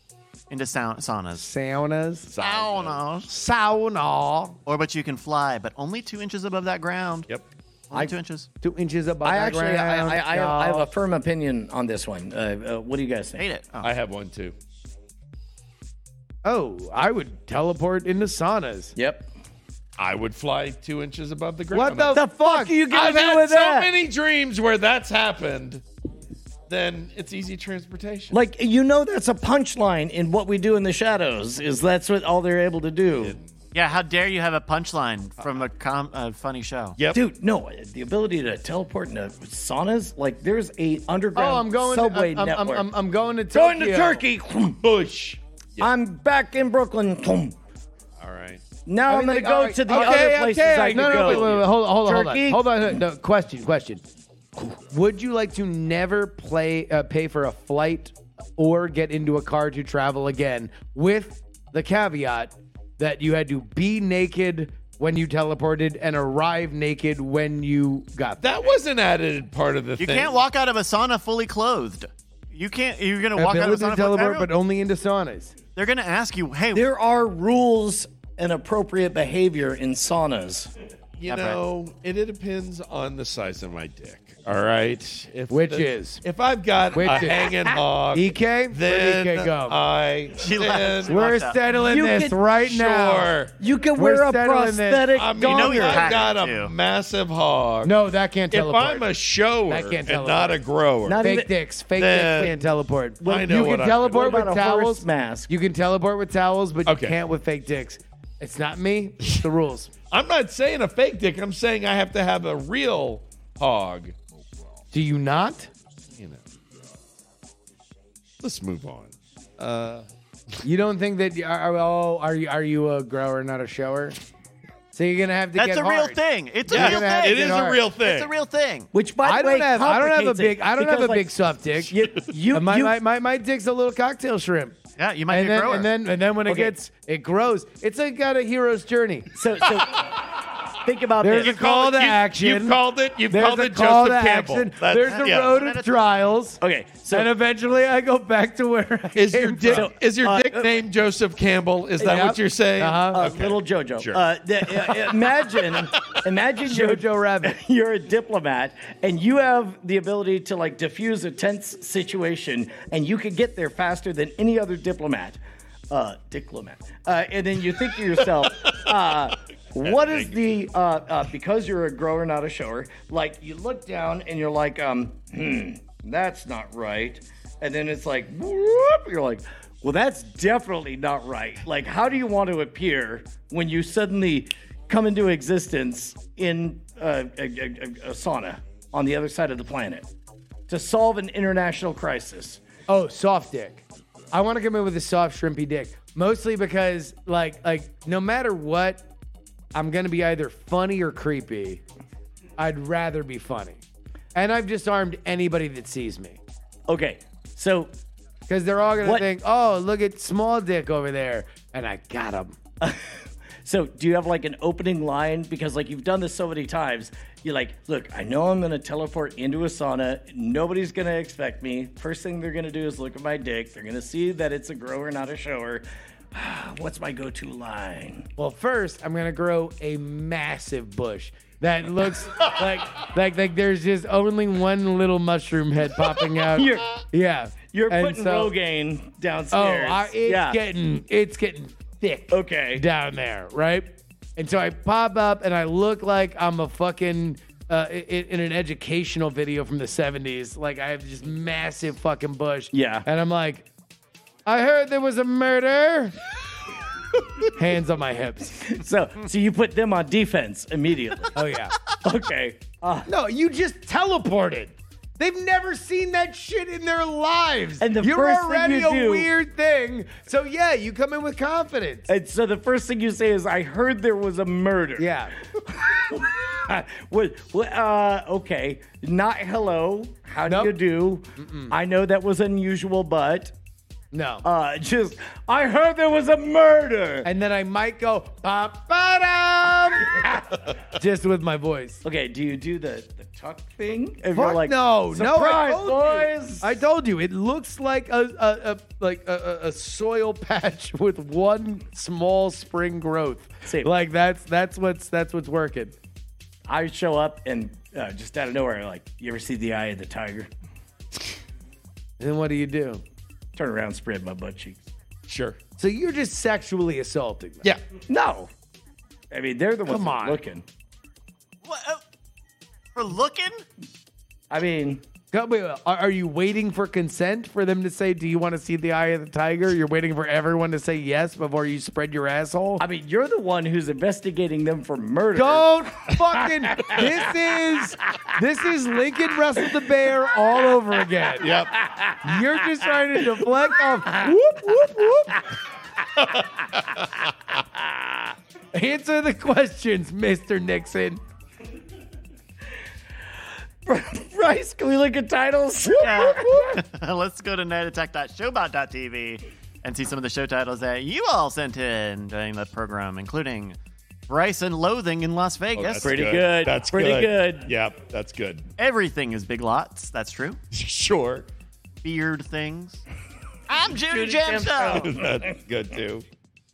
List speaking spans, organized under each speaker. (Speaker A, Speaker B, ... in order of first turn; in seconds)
Speaker A: 0.5-1.5, 2.4-3.3, 4.7-7.3, 7.9-8.5, 13.4-13.9, 33.7-37.0, 70.0-74.5, 75.8-76.9, 81.3-81.6, 90.4-91.6, 95.5-96.7, 125.6-128.9, 135.0-135.9, 145.0-145.9, 321.6-322.0, 322.9-323.6, 356.0-366.2, 368.8-370.6, 372.0-373.0, 373.7-375.1
Speaker B: 1.4-2.3, 3.3-4.6, 8.6-10.9, 16.4-18.9, 21.7-22.8, 41.4-44.2, 49.1-54.0, 54.9-68.6, 73.4-75.5, 85.5-86.2, 86.9-87.6, 88.1-89.8, 91.1-93.3, 94.0-95.2, 97.8-99.1, 99.7-100.6, 101.2-109.9, 114.9-115.7, 120.6-124.2, 124.9-127.8, 129.2-134.8, 135.3-139.3, 141.2-149.9, 152.0-153.3, 156.6-157.6, 192.9-199.1, 199.7-201.8, 202.6-203.8, 204.3-206.4, 208.5-212.6, 228.4-238.6, 239.5-253.7, 254.5-256.2, 257.5-258.7, 261.4-261.8, 263.1-272.1, 275.0-275.4, 280.5-280.7, 281.4-281.8, 284.1-284.4, 287.2-292.0, 294.3-306.0, 312.2-313.0, 315.8-317.7, 319.9-320.4, 325.3-332.9, 335.3-341.6, 342.2-345.4, 348.7-351.2, 355.9-356.8
Speaker C: 2.3-3.0, 13.8-14.6, 20.0-22.2, 22.9-25.8, 26.7-28.4, 33.1-33.5, 44.8-45.9, 48.2-48.6, 49.9-51.6, 68.4-70.4, 81.2-91.2, 92.6-93.5, 95.1-98.0, 98.5-101.3, 102.0-102.5, 103.2-104.3, 106.9-107.2, 110.1-114.2, 116.1-116.4, 118.4-120.6, 126.7-128.3, 141.4-145.6, 149.1-156.2, 169.8-170.5, 315.3-315.6, 341.4-341.8, 365.8-368.7, 370.7-371.5, 374.9-376.2
Speaker D: 9.2-13.4, 19.0-19.3, 22.1-23.9, 28.3-33.4, 37.1-42.9, 43.5-44.8, 45.8-47.5, 48.9-52.7, 76.7-80.7, 91.8-92.4, 93.6-96.2, 101.0-101.5, 103.2-105.5, 128.9-131.3, 131.9-133.0, 136.5-136.7, 139.3-140.2, 140.7-141.6, 146.6-147.3, 149.7-150.8, 152.0-152.4, 153.1-165.4, 165.9-190.1, 190.7-192.6, 206.9-207.9, 212.8-228.3, 236.5-237.0, 237.7-240.6, 242.3-242.8, 252.7-253.1, 258.6-261.4, 261.9-263.1, 267.8-269.3, 272.1-283.5, 284.4-287.3, 292.0-296.8, 306.7-310.5, 313.6-314.8, 318.1-318.5, 319.3-320.6, 324.5-325.0, 332.8-337.3, 341.8-342.2, 344.1-344.4, 347.7-348.4, 353.9-356.8, 366.0-367.7, 373.9-375.5